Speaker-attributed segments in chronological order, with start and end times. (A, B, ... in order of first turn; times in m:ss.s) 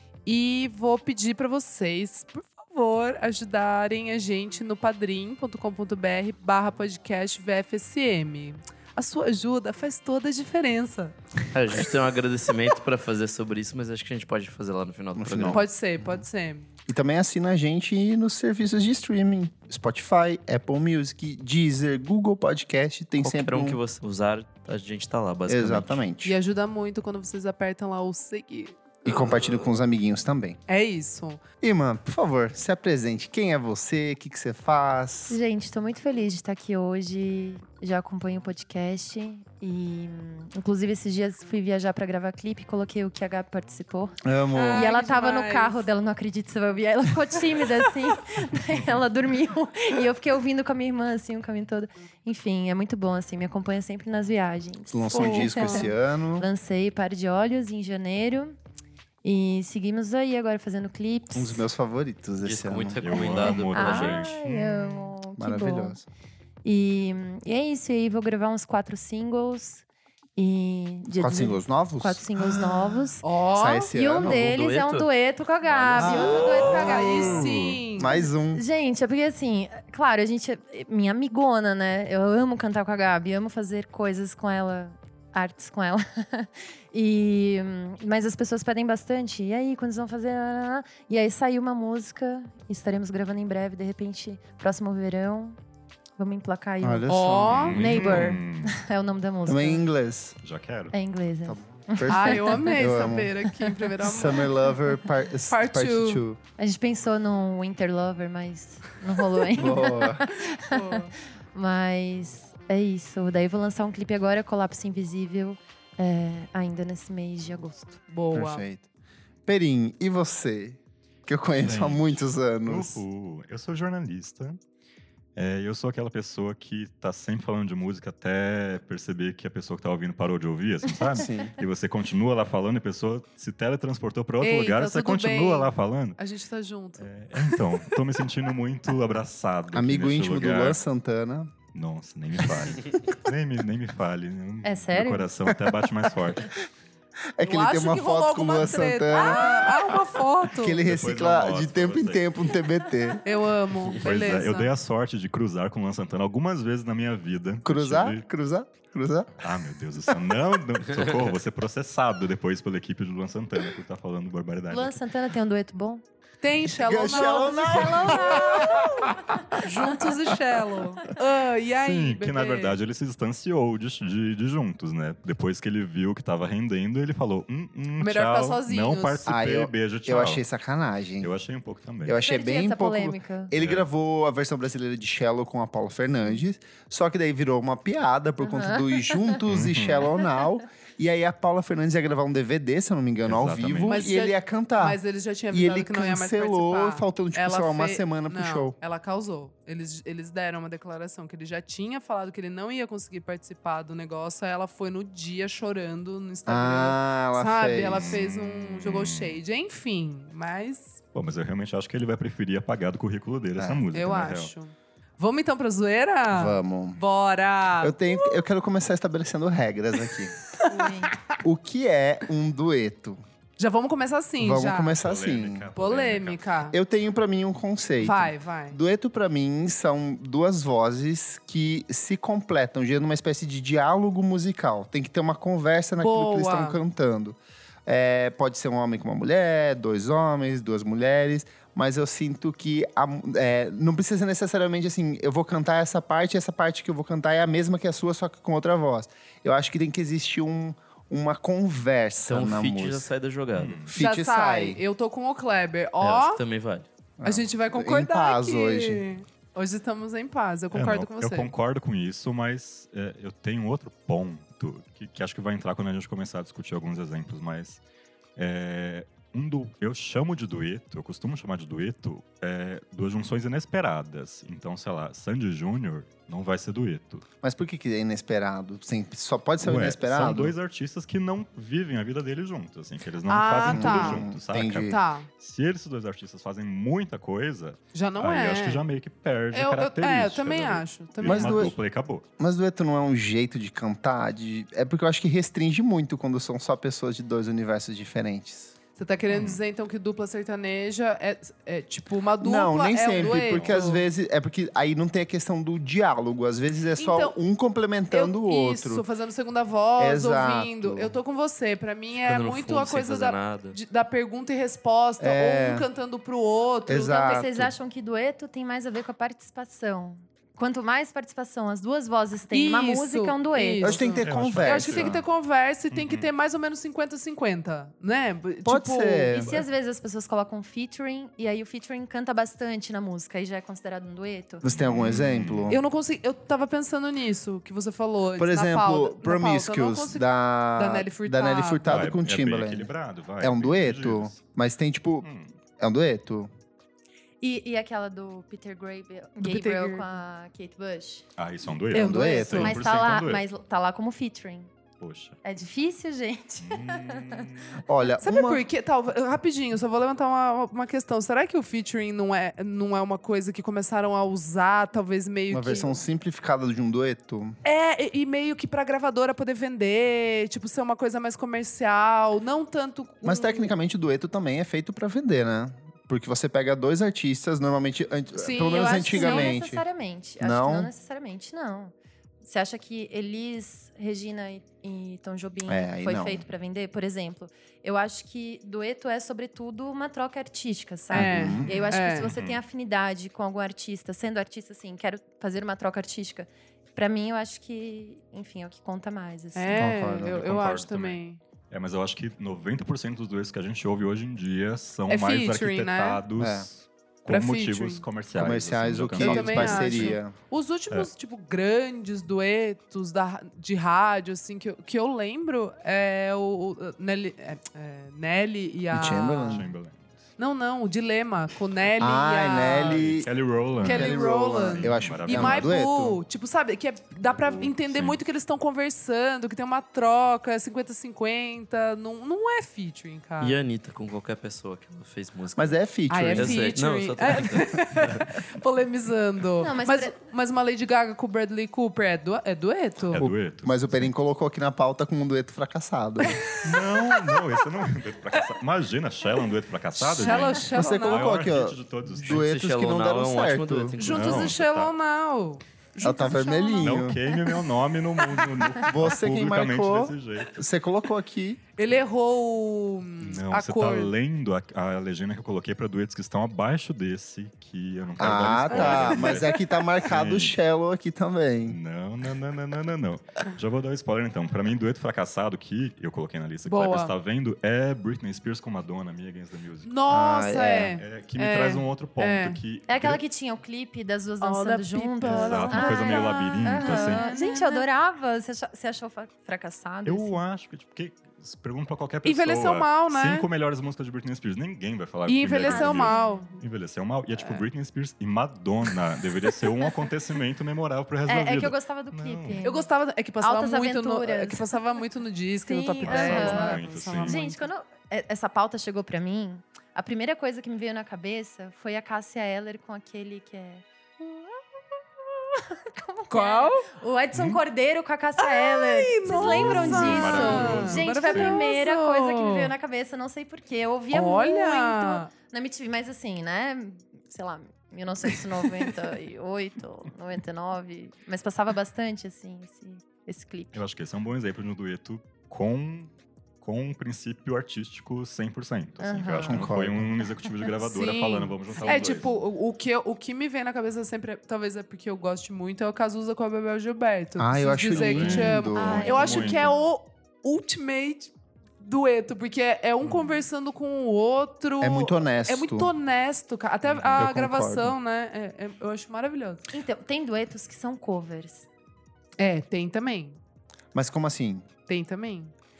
0:00.2-0:11.2 A
0:11.5-0:15.6 B
0:15.1-0:16.2 C
0:15.5-0:16.7 A
0:16.9-0:23.8 C
0:23.2-0:26.1 B
0:25.5-0:26.4 C
0:26.2-0:29.5 A
0:29.0-0:30.6 C
0:30.7-0:31.4 A
0:31.6-0:35.4 C
0:35.3-0:44.2 D
0:44.2-0:44.9 C
0:44.5-0:45.8 A
0:44.7-0:58.6 D
0:54.9-0:56.5 C
0:55.1-0:55.9 A
0:59.2-1:01.6 D
1:01.3-1:03.0 C
1:02.4-1:04.3 B
1:03.0-1:05.1 E
1:03.1-1:06.0 D
1:05.4-1:06.0 C
1:06.6-1:09.8 D
1:10.4-1:13.3 D
1:11.1-1:14.4 C
1:13.2-1:13.9 A
1:13.8-1:17.3 D
1:14.2-1:15.1 B
1:15.6-1:17.8 E
1:15.9-1:18.6 C
1:16.3-1:18.3 A
1:18.5-1:35.6 D
1:36.2-1:37.1 D
1:36.8-1:38.4 C
1:37.1-1:37.8 A
1:37.5-1:38.8 E
1:37.7-1:39.8 D
1:39.4-1:40.4 C
1:40.4-1:40.9 E
1:40.9-1:43.9 D
1:41.4-1:43.3 C
1:42.1-1:44.6 A
1:44.0-1:46.4 C
1:45.5-1:46.2 A
1:46.6-1:58.0 D
1:49.5-1:50.2 C
1:50.7-1:51.1 A
1:58.1-1:58.6 A
1:58.3-1:58.8 C
1:59.4-2:03.0 C
2:01.6-2:04.6 E
2:05.4-2:16.2 E
2:11.1-2:11.6 C
2:14.4-2:17.1 A
2:17.0-2:20.8 E
2:19.7-2:21.5 C
2:21.7-2:26.6 E
2:22.4-2:23.2 C
2:24.6-2:25.3 D
2:27.4-2:33.2 C
2:27.4-2:30.8 A
2:30.8-2:32.3 E
2:33.2-2:34.7 A
2:33.8-2:38.2 E
2:37.6-2:39.4 C
2:39.4-2:45.0 E
2:44.7-2:46.0 D
2:46.4-2:48.8 A
2:46.6-2:50.1 C
2:47.2-2:49.4 D
2:49.6-2:52.8 A
2:51.8-3:00.4 E
2:58.0-2:59.3 A
2:59.3-3:01.3 C
3:01.2-3:02.2 E
3:02.0-3:18.8 C
3:02.2-3:03.5 D
3:03.5-3:03.8 E
3:08.4-3:09.3 D
3:09.4-3:10.1 E
3:13.2-3:14.0 E
3:13.8-3:31.0 A
3:26.5-3:28.2 C
3:27.9-3:29.4 E
3:31.1-3:34.5 E
3:33.6-3:33.8 C
3:33.9-3:38.0 A
3:36.3-3:37.0 C
3:37.8-3:40.4 C
3:40.7-3:41.1 A
3:40.7-3:41.1 D
3:41.4-3:43.2 C
3:43.6-3:45.0 A
3:44.4-3:45.7 C
3:45.0-3:46.4 E
3:45.8-3:46.8 A
3:46.7-4:13.1 C
3:48.0-3:48.8 A
3:56.0-3:56.8 A
4:12.3-4:13.9 B
4:13.5-4:13.9 E
4:13.9-4:14.8 C
4:14.0-4:16.4 A
4:16.0-4:16.9 B
4:17.2-4:19.0 C
4:17.2-4:21.5 A
4:20.7-4:27.8 E
4:28.4-4:37.2 E
4:37.4-4:40.5 C
4:39.6-4:52.2 E
4:43.3-4:44.2 A
4:43.6-4:45.0 C
4:44.8-4:45.3 A
4:47.9-4:48.8 A
4:49.5-4:51.7 A
4:51.2-4:51.8 C
4:52.4-4:58.8 C
4:59.0-5:04.0 A
4:59.3-4:59.6 E
5:02.4-5:09.0 C
5:03.4-5:03.8 E
5:07.0-5:07.4 A
5:08.1-5:17.1 A
5:10.0-5:11.1 C
5:12.2-5:13.8 B
5:15.2-5:15.8 C
5:16.9-5:17.7 C
5:16.9-5:24.0 D
5:22.5-5:29.5 A
5:23.8-5:25.1 C
5:24.2-5:25.2 E
5:25.9-5:26.3 E
5:28.6-5:29.6 C
5:29.3-5:34.6 D
5:34.6-5:35.8 C
5:34.6-5:35.8 E
5:35.7-5:42.2 A
5:38.4-5:45.3 C
5:41.8-5:44.4 E
5:45.2-5:45.5 E
5:45.8-5:46.5 C
5:47.4-5:51.2 D
5:49.4-5:50.0 A
5:51.4-5:53.4 E
5:51.9-5:52.9 C
5:51.9-5:54.7 D
5:52.0-5:52.5 A
5:55.0-5:55.4 E
5:55.4-5:57.5 D
5:56.6-5:57.8 E
5:57.8-5:58.6 C
5:58.2-6:06.0 A
6:05.5-6:07.6 C
6:07.6-6:13.7 A
6:13.2-6:19.8 C
6:18.4-6:19.6 A
6:18.7-6:39.9 D
6:20.4-6:20.9 C
6:25.7-6:26.4 C
6:31.1-6:32.3 A
6:31.1-6:31.7 C
6:31.6-6:32.6 E
6:39.5-6:41.4 A
6:39.7-6:40.4 C
6:40.0-6:50.2 E
6:45.1-6:46.2 A
6:46.4-6:46.7 C
6:47.3-6:48.0 A
6:48.3-6:50.3 C
6:49.2-6:59.6 A
6:58.9-6:59.7 C
6:59.4-7:00.2 E
7:00.4-7:03.2 A
7:02.0-7:06.2 C
7:02.7-7:05.8 E
7:03.8-7:13.6 A
7:07.2-7:08.2 E
7:13.4-7:18.4 B
7:15.6-7:16.7 C
7:16.1-7:23.2 A
7:19.6-7:20.1 D
7:23.1-7:24.1 E
7:23.2-7:26.4 C
7:26.2-7:27.4 A
7:26.4-7:32.5 E
7:30.0-7:31.3 A
7:30.5-7:34.0 C
7:32.2-7:34.5 B
7:34.0-7:34.9 E
7:34.0-7:37.7 A
7:36.0-7:37.2 C
7:36.8-7:40.6 E
7:38.8-7:41.6 C
7:41.8-7:44.1 A
7:43.2-7:50.6 E
7:48.2-7:51.8 C
7:48.7-7:49.8 A
7:51.7-7:59.9 E
7:56.6-7:57.1 A
7:59.8-8:02.6 A
8:00.1-8:01.0 C
8:01.0-8:03.2 E
8:02.9-8:10.4 D
8:04.4-8:07.8 A
8:05.2-8:07.2 E
8:10.0-8:22.6 E
8:12.2-8:13.4 A
8:15.3-8:16.6 A
8:15.6-8:16.5 D
8:17.4-8:17.6 A
8:21.3-8:24.7 D
8:22.6-8:27.7 A
8:25.6-8:33.8 D
8:26.0-8:27.4 E
8:35.7-8:53.8 D
8:36.3-8:36.9 A
8:37.3-8:37.6 E
8:38.4-8:42.7 A
8:39.3-8:41.6 E
8:44.1-8:45.3 A
8:53.7-9:02.4 E
8:59.0-8:59.6 D
8:59.5-9:00.1 C
9:00.8-9:19.6 A
9:01.8-9:02.3 D
9:07.4-9:09.2 C
9:07.9-9:09.8 E
9:08.7-9:09.6 D
9:13.0-9:13.4 E
9:14.8-9:15.9 C
9:16.8-9:17.3 E
9:17.1-9:18.0 C
9:19.7-9:21.7 D
9:22.4-9:23.4 A
9:23.9-9:24.6 C
9:24.9-9:25.5 A